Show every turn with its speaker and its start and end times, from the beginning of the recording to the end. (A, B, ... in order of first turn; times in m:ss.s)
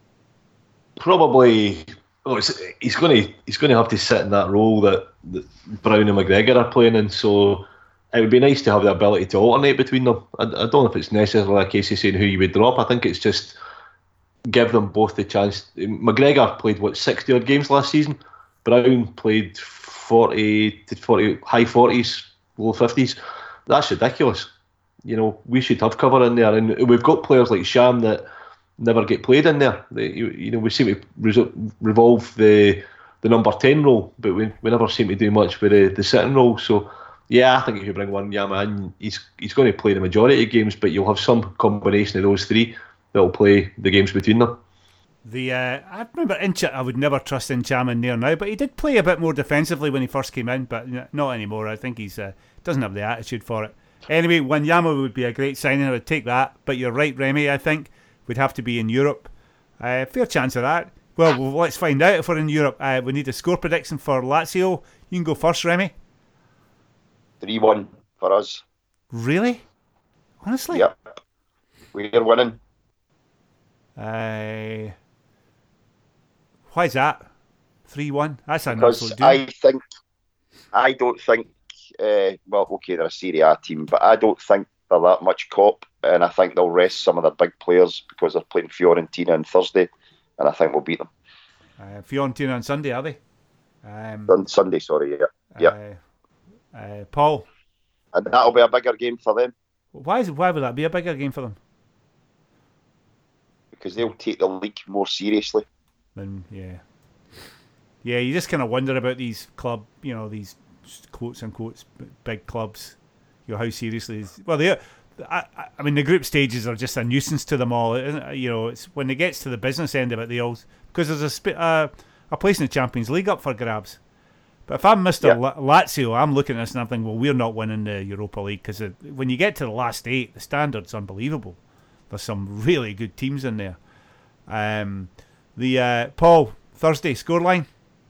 0:01.0-0:13.6 A
0:14.5-0:24.5 A
0:25.0-0:28.2 A
0:28.8-0:44.6 A
0:45.2-1:05.9 B
1:07.4-1:08.6 C
1:09.1-1:09.6 B
1:10.4-1:10.9 B
1:11.9-1:12.6 C
1:14.0-1:14.9 B
1:16.7-1:17.3 B
1:17.9-1:19.4 B
1:18.7-1:19.8 C
1:20.7-1:31.1 C
1:31.8-1:33.2 B
1:33.8-1:34.3 B
1:34.3-1:35.7 C
1:35.6-1:36.0 B
1:36.7-1:37.5 B
1:38.1-1:39.5 C
1:39.9-1:41.6 B
1:43.8-1:45.6 C
1:46.2-1:46.8 B
1:48.0-1:53.0 B
1:53.5-2:04.0 B
2:04.7-2:11.6 B
2:12.1-2:13.8 B
2:14.5-2:17.7 B